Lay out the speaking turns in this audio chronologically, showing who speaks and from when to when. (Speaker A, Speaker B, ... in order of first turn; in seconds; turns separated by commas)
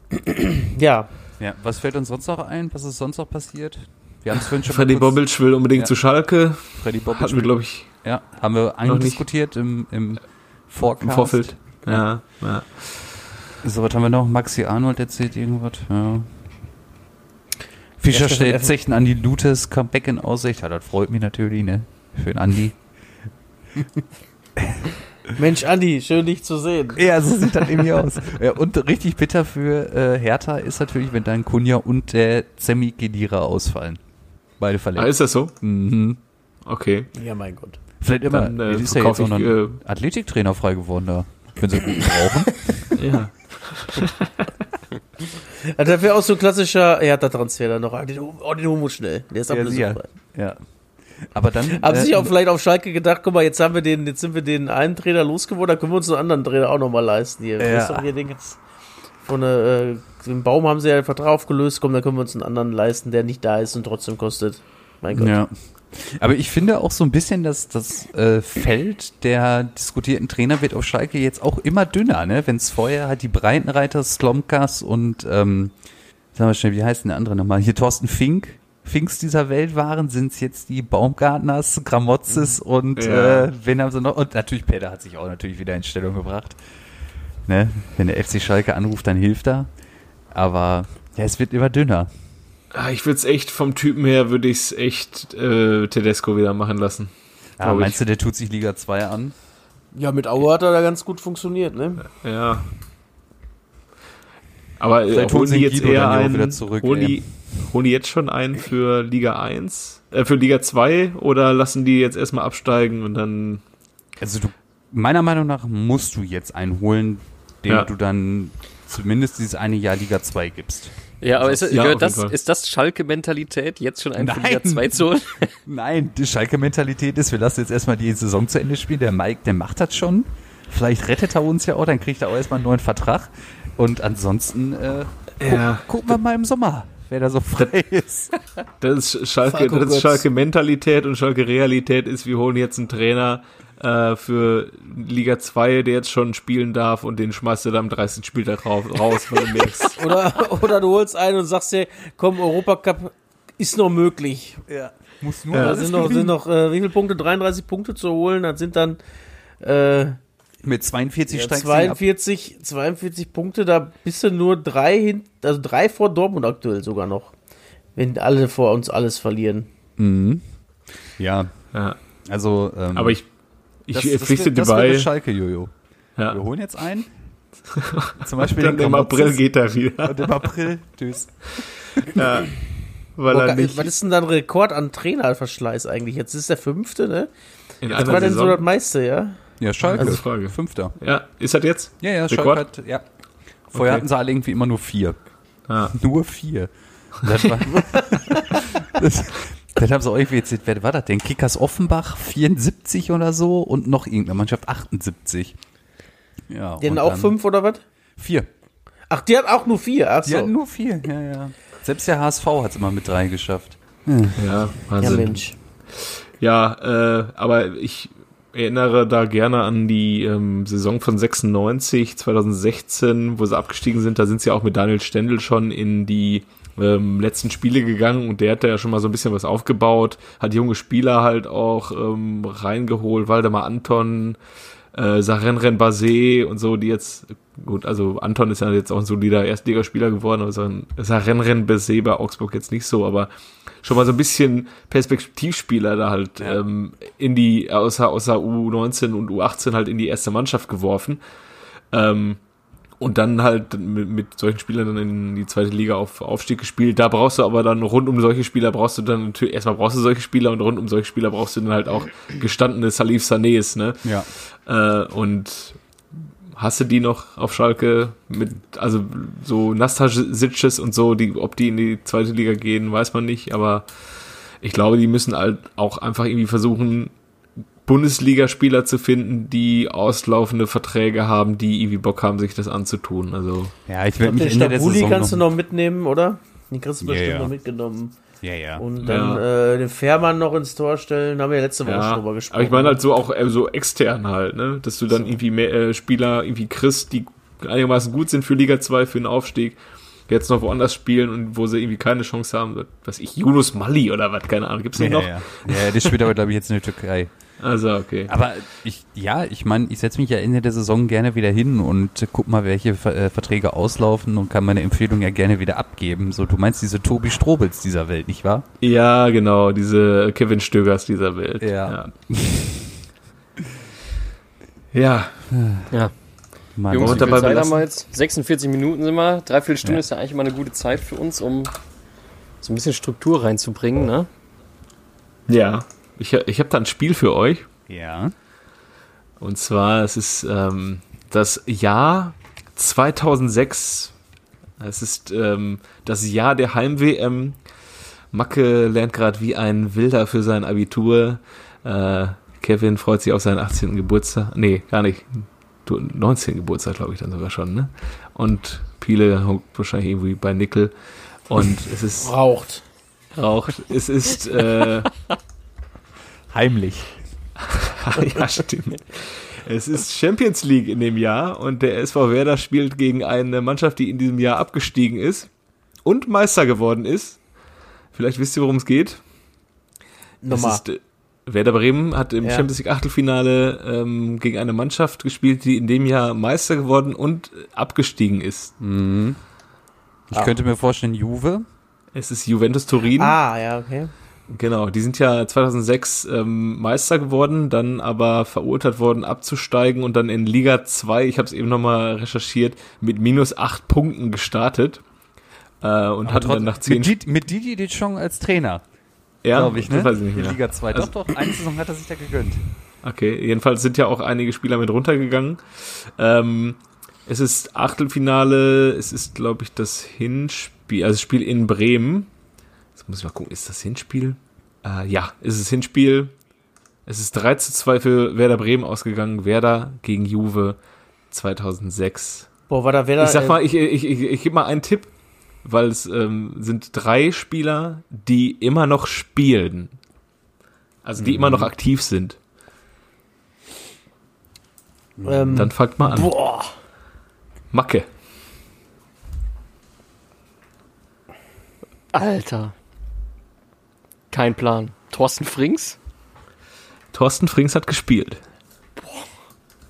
Speaker A: 0.6-1.1, Speaker B: 1.4-5.2, Speaker C: 4.7-8.0, Speaker B: 5.8-12.1, Speaker C: 8.8-9.2, Speaker C: 11.0-13.0, Speaker B: 13.6-16.3, Speaker B: 18.0-22.9, Speaker A: 18.1-18.7, Speaker B: 24.6-24.9, Speaker A: 25.4-27.9, Speaker B: 27.0-34.0, Speaker B: 34.6-36.2, Speaker C: 35.0-35.5, Speaker C: 36.7-37.1, Speaker A: 37.1-37.8, Speaker B: 38.0-42.9, Speaker C: 38.3-39.8, Speaker C: 43.0-44.5, Speaker A: 45.6-50.1, Speaker B: 49.5-50.6, Speaker B: 51.2-52.3, Speaker A: 51.8-58.6, Speaker B: 57.6-58.1, Speaker A: 59.2-65.3, Speaker B: 65.1-75.8, Speaker B: 76.3-86.6, Speaker C: 82.4-83.5, Speaker B: 87.5-89.7, Speaker B: 90.3-92.1, Speaker C: 92.7-98.0, Speaker B: 97.6-99.3, Speaker A: 100.0-102.1, Speaker C: 102.0-102.7, Speaker C: 104.8-113.6, Speaker B: 105.1-107.3, Speaker B: 114.2-121.8, Speaker D: 121.2-125.5, Speaker C: 121.7-122.3, Speaker B: 124.2-138.3, Speaker C: 135.4-135.9, Speaker C: 138.8-150.0, Speaker A: 139.5-140.2, Speaker A: 150.0-154.6, Speaker B: 154.7-156.3, Speaker C: 155.5-156.1, Speaker A: 155.6-159.0, Speaker A: 159.6-160.2, Speaker B: 160.6-162.0, Speaker A: 161.3-167.3, Speaker A: 168.0-169.7, Speaker B: 170.0-170.4, Speaker B: 171.2-171.5, Speaker C: 171.7-172.0, Speaker B: 172.2-173.2, Speaker C: 172.9-173.3, Speaker C: 173.8-175.1, Speaker B: 173.9-175.7, Speaker B: 176.3-177.1, Speaker C: 177.7-180.3, Speaker B: 178.2-179.4, Speaker B: 180.0-182.1, Speaker C: 182.1-182.6, Speaker C: 183.2-183.9, Speaker A: 183.3-187.3, Speaker C: 187.8-188.7, Speaker A: 187.8-189.4, Speaker B: 189.6-190.9, Speaker A: 189.9-190.2, Speaker C: 189.9-192.6, Speaker B: 192.0-193.1, Speaker B: 193.7-195.3, Speaker C: 193.7-194.1, Speaker C: 195.7-195.9, Speaker B: 195.9-205.6, Speaker B: 206.5-207.3, Speaker A: 206.8-207.8, Speaker B: 208.2-208.5, Speaker A: 209.1-210.5, Speaker B: 210.2-215.2, Speaker C: 214.4-234.4, Speaker A: 215.0-215.6, Speaker C: 234.9-251.2, Speaker C: 251.9-252.4, Speaker C: 253.0-265.8, Speaker C: 266.5-277.1, Speaker C: 277.9-283.7, Speaker B: 283.9-285.4, Speaker A: 284.2-293.0, Speaker B: 287.0-287.5, Speaker B: 288.4-288.9, Speaker C: 289.0-289.4, Speaker C: 291.9-306.1, Speaker B: 305.0-307.3, Speaker C: 307.6-308.3, Speaker B: 308.3-318.6, Speaker C: 318.8-322.1, Speaker B: 321.6-323.0, Speaker C: 324.9-325.5, Speaker B: 325.5-325.9, Speaker B: 326.8-327.8, Speaker D: 326.8-331.8, Speaker C: 327.0-327.8, Speaker D: 332.6-334.3, Speaker C: 335.5-337.7, Speaker B: 337.9-338.3, Speaker C: 339.4-344.1, Speaker C: 344.8-347.6, Speaker C: 348.3-360.9, Speaker C: 361.4-362.3, Speaker A: 362.2-362.8, Speaker C: 363.3-365.2, Speaker B: 366.5-367.2, Speaker C: 367.7-375.5, Speaker C: 376.0-377.4, Speaker C: 378.1-379.2, Speaker A: 380.4-380.8, Speaker C: 380.5-388.7, Speaker A: 382.4-382.7, Speaker B: 388.8-389.4, Speaker B: 390.3-391.6, Speaker C: 392.1-393.4, Speaker A: 393.2-394.1, Speaker C: 394.5-405.0, Speaker C: 405.8-407.1, Speaker B: 406.2-408.8, Speaker C: 409.4-411.1, Speaker B: 409.5-412.6, Speaker C: 413.0-422.3, Speaker C: 422.9-426.3, Speaker C: 427.1-430.8, Speaker C: 431.3-432.5, Speaker A: 432.7-433.6, Speaker C: 433.2-435.1, Speaker C: 435.6-440.0, Speaker C: 441.0-442.4, Speaker B: 441.2-441.7, Speaker B: 445.2-445.7, Speaker A: 445.2-446.7, Speaker C: 445.5-446.4, Speaker C: 447.7-448.1, Speaker D: 452.1-452.7, Speaker D: 454.3-456.0, Speaker C: 457.1-458.4